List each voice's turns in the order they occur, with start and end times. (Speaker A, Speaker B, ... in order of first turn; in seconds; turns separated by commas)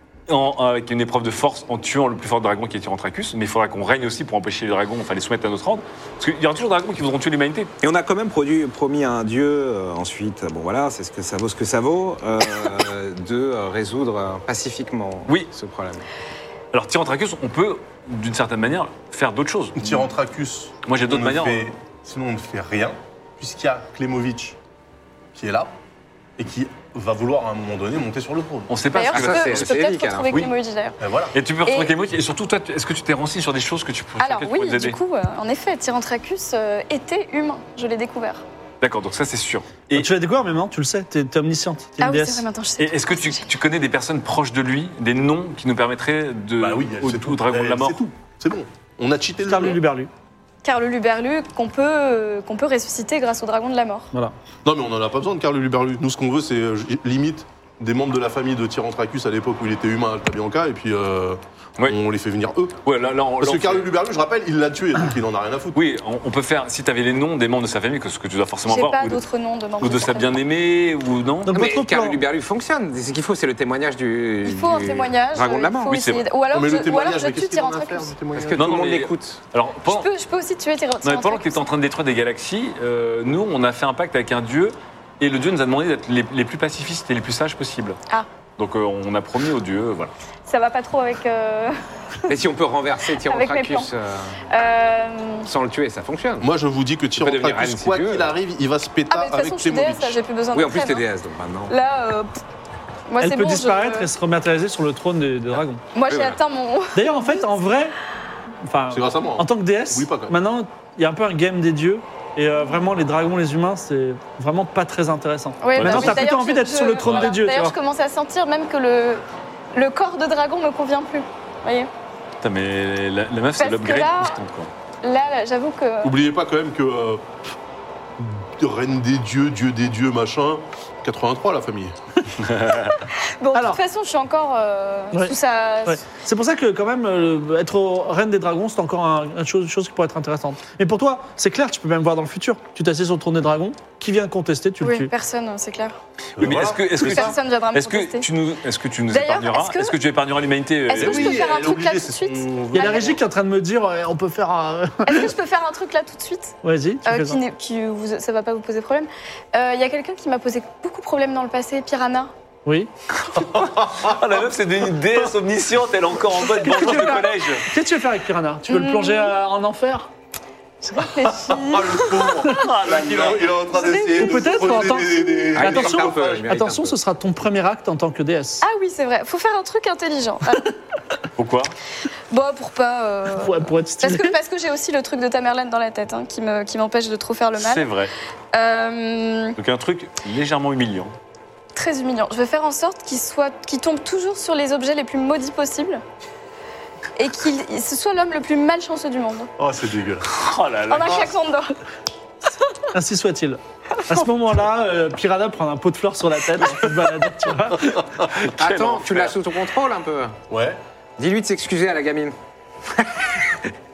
Speaker A: 0.3-7.7, Speaker B: 7.8-16.1, Speaker A: 16.7-20.1, Speaker C: 19.8-24.6, Speaker A: 20.9-21.7, Speaker C: 25.3-25.7, Speaker C: 26.4-28.8, Speaker A: 28.7-29.8, Speaker D: 28.9-31.0, Speaker B: 29.1-30.5, Speaker C: 31.0-31.4, Speaker A: 31.3-35.0, Speaker D: 31.7-31.9, Speaker D: 34.2-38.4, Speaker A: 38.8-40.1, Speaker E: 39.9-42.4, Speaker D: 42.0-43.5, Speaker A: 42.8-48.0, Speaker C: 46.6-49.8, Speaker E: 49.5-50.1, Speaker D: 50.6-54.1, Speaker C: 54.6-62.8, Speaker A: 62.9-63.9, Speaker C: 63.4-65.8, Speaker A: 65.7-69.2, Speaker D: 68.7-70.3, Speaker A: 69.8-71.5, Speaker E: 71.5-72.2, Speaker B: 71.5-76.0, Speaker D: 74.4-78.1, Speaker A: 75.9-76.2, Speaker C: 76.5-78.8, Speaker B: 78.3-79.4, Speaker A: 78.5-80.1, Speaker D: 79.8-81.7, Speaker A: 81.0-88.0, Speaker A: 88.6-90.1, Speaker D: 90.5-91.8, Speaker B: 92.3-94.4, Speaker D: 93.2-93.9, Speaker D: 94.5-95.5, Speaker B: 95.5-96.5, Speaker C: 96.4-100.2, Speaker B: 97.2-98.3, Speaker D: 99.1-101.1, Speaker B: 100.5-101.7, Speaker D: 101.7-102.4, Speaker D: 103.1-104.1, Speaker E: 103.2-105.8, Speaker D: 105.9-107.5, Speaker B: 106.1-106.4, Speaker E: 106.9-108.0, Speaker E: 108.6-117.8, Speaker C: 108.9-110.3, Speaker D: 115.6-119.2, Speaker A: 115.8-116.3, Speaker D: 119.7-121.9, Speaker A: 122.4-124.7, Speaker D: 123.6-124.4, Speaker D: 125.0-126.2, Speaker C: 126.0-127.2, Speaker C: 128.2-131.9, Speaker A: 132.5-132.9, Speaker D: 133.4-136.0, Speaker E: 133.5-133.8, Speaker E: 135.9-145.1, Speaker D: 144.8-146.0, Speaker C: 146.4-147.4, Speaker A: 146.4-151.4, Speaker D: 147.0-148.3, Speaker D: 149.1-150.0, Speaker D: 150.9-153.2, Speaker C: 150.9-153.2, Speaker E: 152.7-155.3, Speaker D: 155.1-162.3, Speaker E: 156.6-157.4, Speaker C: 163.4-164.2, Speaker A: 164.0-167.7, Speaker E: 166.6-170.1, Speaker D: 168.7-169.3, Speaker D: 170.8-172.5, Speaker C: 171.2-176.4, Speaker A: 172.5-173.5, Speaker D: 173.7-175.2, Speaker E: 174.2-178.7, Speaker B: 175.5-176.9, Speaker D: 178.6-180.7, Speaker A: 181.4-181.7, Speaker D: 182.3-187.9, Speaker E: 183.4-184.3, Speaker A: 187.6-188.1, Speaker D: 188.5-189.6, Speaker A: 189.6-191.1, Speaker D: 191.8-196.0, Speaker D: 197.2-199.5, Speaker C: 199.6-200.3, Speaker A: 200.3-201.3, Speaker D: 200.9-201.8, Speaker E: 202.9-208.0, Speaker A: 208.3-209.3, Speaker B: 208.6-210.4, Speaker C: 210.5-210.8, Speaker B: 211.2-212.3, Speaker B: 212.9-213.7